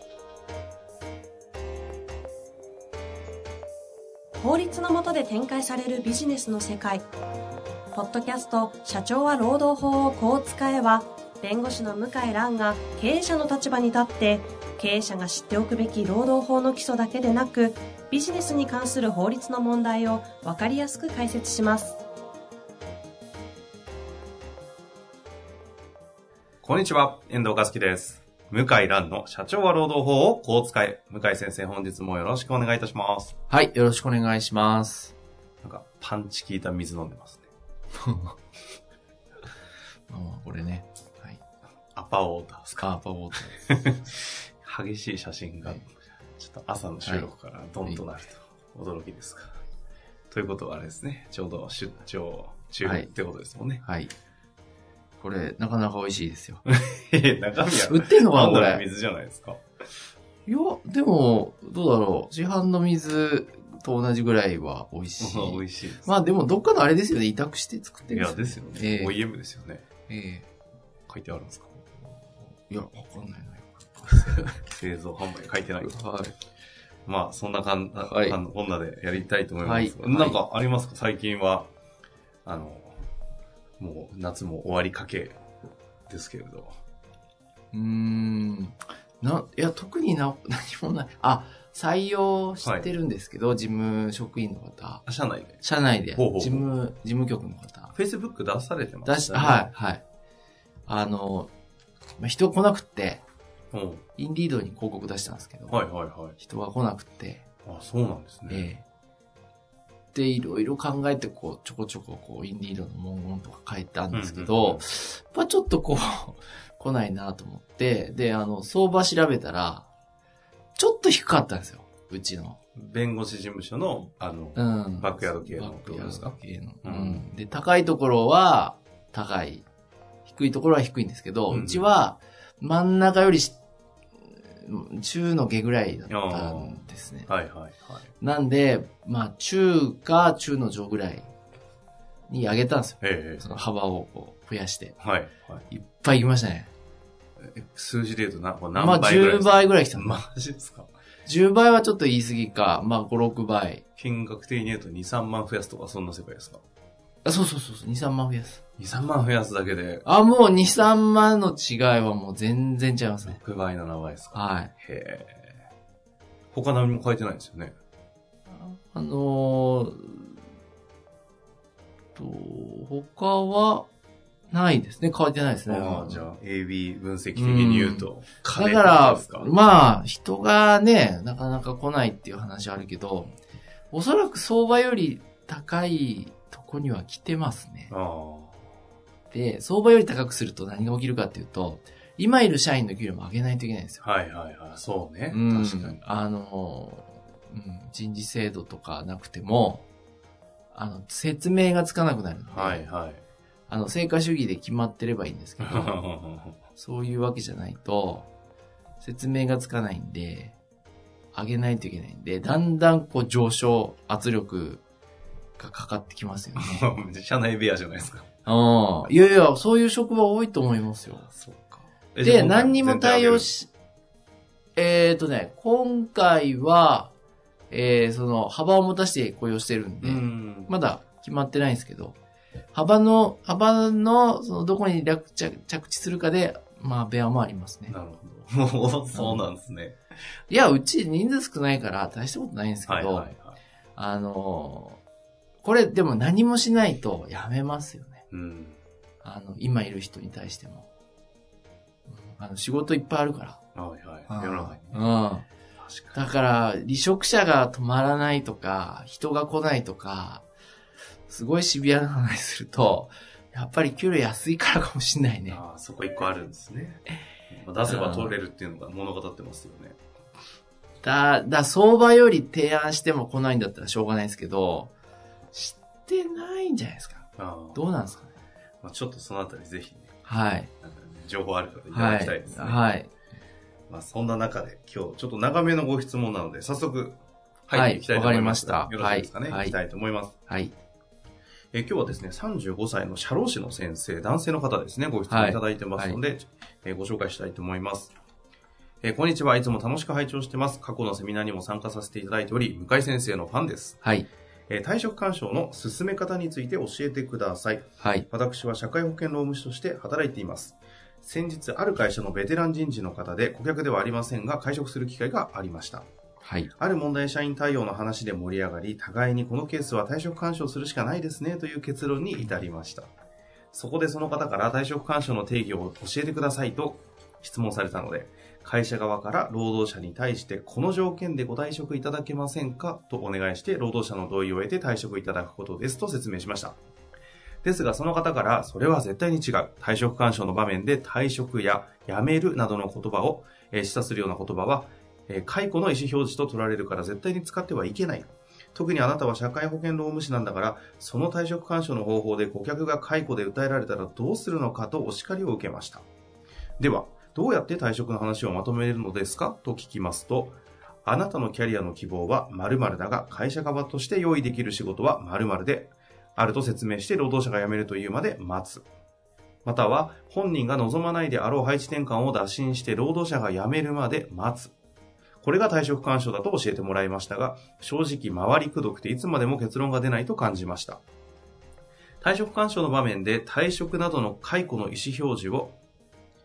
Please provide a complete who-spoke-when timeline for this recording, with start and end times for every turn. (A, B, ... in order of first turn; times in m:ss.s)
0:04.4-0:07.0 A
0:07.9-0:22.0 A
0:26.6-0:33.4 B
0:33.5-0:35.1 C
0:35.6-0:37.5 B
0:38.0-0:38.4 C
0:40.1-0:41.4 C
0:41.9-0:42.9 B
0:42.8-0:43.8 C
0:43.5-0:49.6 B
0:47.0-0:47.3 C
0:50.3-0:53.8 B
0:52.8-0:53.1 C
0:53.8-0:54.1 C
0:55.2-0:56.6 C
0:56.7-0:59.6 B
0:57.8-0:58.8 C
1:00.5-1:09.2 C
1:05.2-1:06.1 B
1:08.1-1:09.8 B
1:10.1-1:10.5 C
1:11.1-1:11.8 B
1:12.5-1:14.6 C
1:14.3-1:16.0 B
1:15.8-1:16.4 C
1:17.1-1:21.7 B
1:18.0-1:18.4 C
1:19.6-1:20.4 C
1:22.4-1:23.0 B
1:23.8-1:25.4 B
1:26.1-1:26.8 B
1:27.7-1:35.0 C
1:35.1-1:35.6 B
1:35.6-1:37.9 C
1:36.2-1:36.7 B
1:38.0-1:39.7 B
1:39.0-1:40.0 C
1:40.9-1:41.5 C
1:42.2-1:43.2 C
1:43.7-1:44.0 B
1:44.2-1:45.8 C
1:45.7-1:46.4 B
1:46.4-1:47.5 C
1:47.6-1:48.7 B
1:48.5-1:48.8 C
1:50.1-1:59.9 C
1:54.1-1:54.8 B
2:00.8-2:02.6 C
2:02.8-2:07.3 B
2:04.6-2:09.6 C
2:10.3-2:13.6 C
2:11.5-2:11.9 B
2:14.3-2:17.3 C
2:16.1-2:18.1 B
2:18.2-2:21.3 C
2:22.3-2:25.0 C
2:23.0-2:23.4 B
2:25.0-2:25.6 B
2:25.7-2:26.7 C
2:27.4-2:30.9 B
2:28.8-2:30.2 C
2:31.3-2:33.8 C
2:34.0-2:36.6 B
2:37.2-2:38.6 C
2:38.8-2:40.0 B
2:40.0-2:43.4 C
2:43.3-2:45.6 B
2:44.3-2:44.7 C
2:46.5-2:47.8 B
2:48.5-2:50.4 C
2:52.2-2:53.9 C
2:54.5-2:56.3 C
2:55.7-2:59.5 B
2:57.4-3:03.3 C
3:03.9-3:07.9 C
3:07.9-3:08.6 B
3:09.3-3:14.0 C
3:14.0-3:16.0 B
3:15.3-3:19.9 C
3:20.7-3:22.8 C
3:22.5-3:23.2 B
3:23.7-3:26.0 C
3:25.6-3:26.6 B
3:26.8-3:28.3 C
3:29.0-3:30.6 C
3:31.3-3:34.8 C
3:35.6-3:36.9 C
3:36.6-3:38.3 B
3:38.5-3:41.3 C
3:41.3-3:43.5 B
3:42.2-3:43.7 C
3:44.8-3:47.1 C
3:47.7-3:52.2 C
3:50.0-3:50.7 B
3:52.7-3:58.0 C
3:57.9-4:00.0 B
3:59.2-3:59.4 C
4:00.5-4:03.3 C
4:02.9-4:03.6 B
4:04.0-4:05.0 C
4:05.6-4:08.2 C
4:08.3-4:08.8 B
4:09.2-4:10.9 C
4:12.1-4:13.6 C
4:13.8-4:15.1 B
4:14.3-4:15.5 C
4:15.8-4:16.2 B
4:16.1-4:20.4 C
4:21.3-4:25.6 C
4:25.5-4:30.0 B
4:27.9-4:28.4 C
4:31.0-4:34.9 C
4:35.5-4:38.3 C
4:37.4-4:37.8 B
4:38.8-4:40.1 B
4:40.3-4:40.7 C
4:40.8-4:42.8 B
4:41.9-4:43.1 C
4:43.9-4:50.4 B
4:47.7-4:49.8 C
4:50.5-4:50.7 C
4:51.7-4:58.1 B
4:55.3-4:56.2 C
4:59.0-5:04.0 B
5:04.7-5:16.1 B
5:08.0-5:08.3 C
5:16.4-5:16.7 C
5:16.8-5:23.1 B
5:23.7-5:36.8 B
5:37.6-5:56.0 B
5:56.8-6:08.8 B
6:09.6-6:14.7 B
6:15.4-6:21.0 B
6:22.2-6:25.8 B